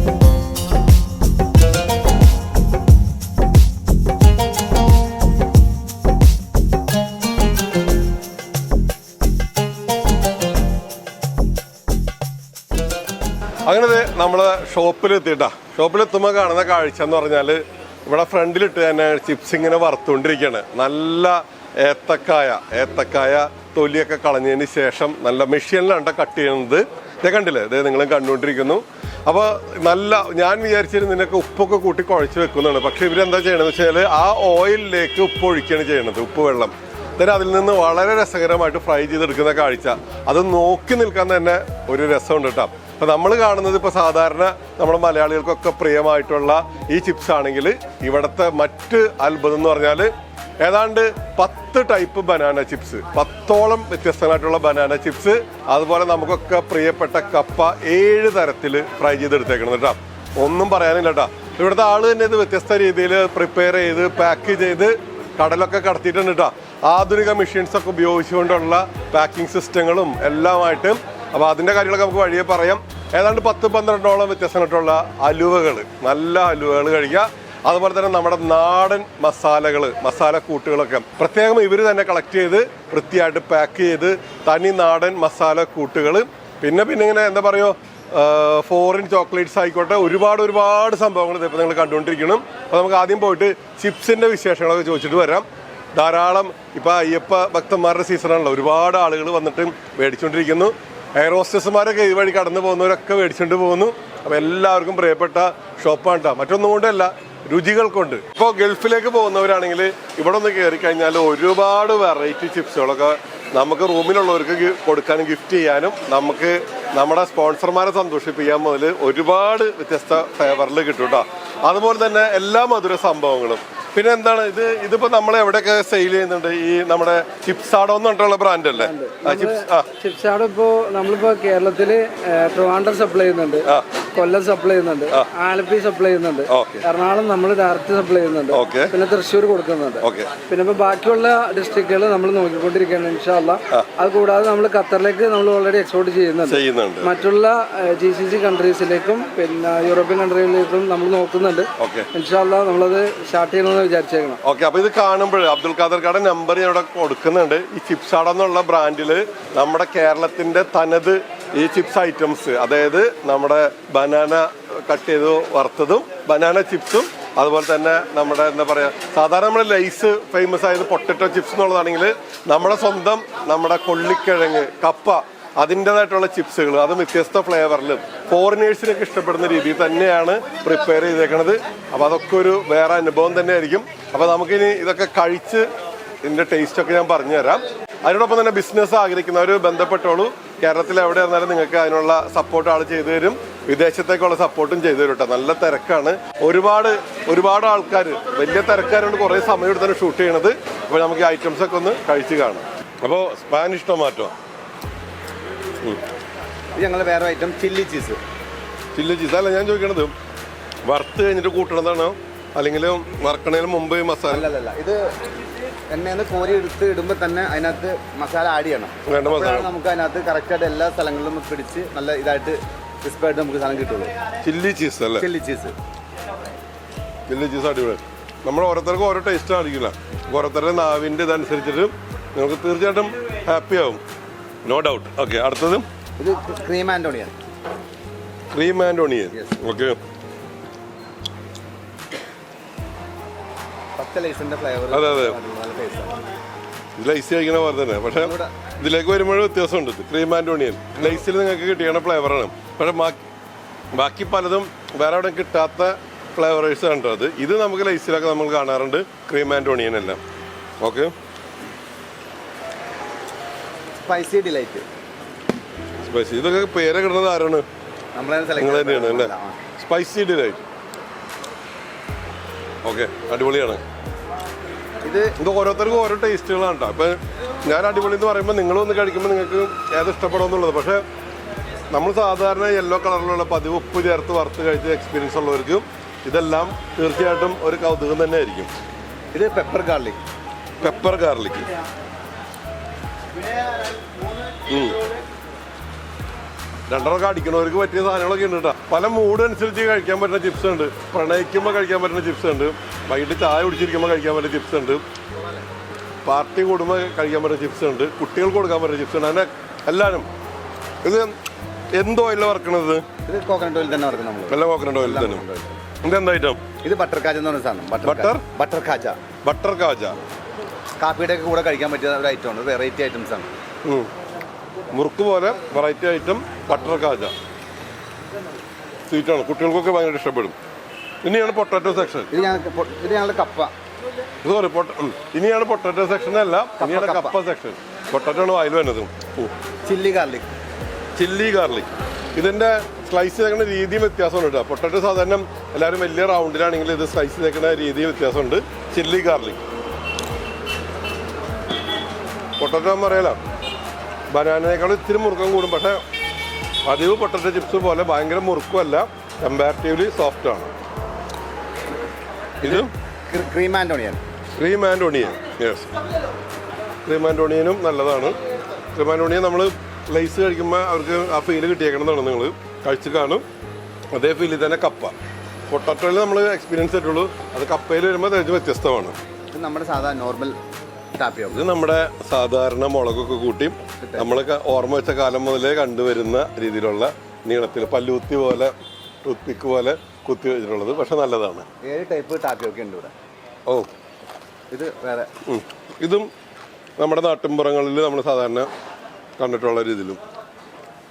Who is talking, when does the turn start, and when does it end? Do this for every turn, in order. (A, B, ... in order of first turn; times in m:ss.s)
0:13.6-2:09.9 A
2:08.8-2:34.4 B
2:16.5-2:16.8 A
2:18.5-2:18.9 A
2:20.0-2:20.3 A
2:26.4-2:27.1 A
2:31.8-2:32.1 A
2:34.4-3:05.7 A
3:06.2-3:24.3 A
3:26.8-3:28.2 C
3:28.9-3:30.1 A
3:30.8-3:34.5 A
3:34.3-3:35.0 C
3:35.9-3:44.1 C
3:39.1-3:39.7 A
3:44.4-3:45.3 A
3:45.2-3:45.7 C
3:47.3-3:54.0 A
3:54.6-3:55.8 A
3:56.2-3:57.3 C
3:58.5-4:00.0 A
3:59.3-3:59.6 C
4:04.0-4:06.2 C
4:04.9-4:05.4 A
4:07.0-4:13.2 A
4:08.1-4:08.5 C
4:13.9-4:20.2 A
4:20.8-4:21.1 A
4:24.0-4:24.8 C
4:26.0-4:27.6 A
4:28.1-4:29.6 C
4:28.6-4:30.6 A
4:32.8-4:33.8 A
4:35.0-4:35.4 C
4:35.4-4:41.0 A
4:41.9-4:48.7 A
4:49.3-4:50.2 C
4:50.8-4:51.7 A
4:54.7-4:55.0 A
4:56.9-5:05.0 A
5:06.2-5:10.3 A
5:11.0-5:11.3 A
5:11.9-5:13.0 A
5:13.3-5:15.8 C
5:14.5-5:15.4 A
5:16.0-5:16.6 A
5:16.8-5:19.2 C
5:18.0-5:18.4 A
5:19.4-5:20.2 A
5:21.0-5:23.5 C
5:23.8-5:24.1 A
5:24.9-5:27.3 A
5:29.1-5:30.6 A
5:31.2-5:32.3 A
5:32.3-5:33.7 C
5:34.4-5:39.5 A
5:36.8-5:37.4 C
5:39.8-5:40.5 C
5:41.2-5:49.6 A
5:52.6-5:53.4 A
5:54.3-5:56.0 A
5:56.8-6:00.7 A
6:02.6-6:02.9 A
6:02.6-6:04.2 C
6:04.6-6:05.9 A
6:07.0-6:08.4 A
6:08.9-6:13.4 A
6:14.1-6:15.1 A
6:15.7-6:19.2 A
6:19.5-6:20.6 C
6:21.1-6:21.6 C
6:21.5-6:28.7 A
6:24.0-6:24.4 C
6:29.2-6:31.7 A
6:31.8-6:33.1 C
6:34.7-6:35.3 C
6:35.4-6:36.3 A
6:37.0-6:38.7 A
6:39.4-6:40.2 A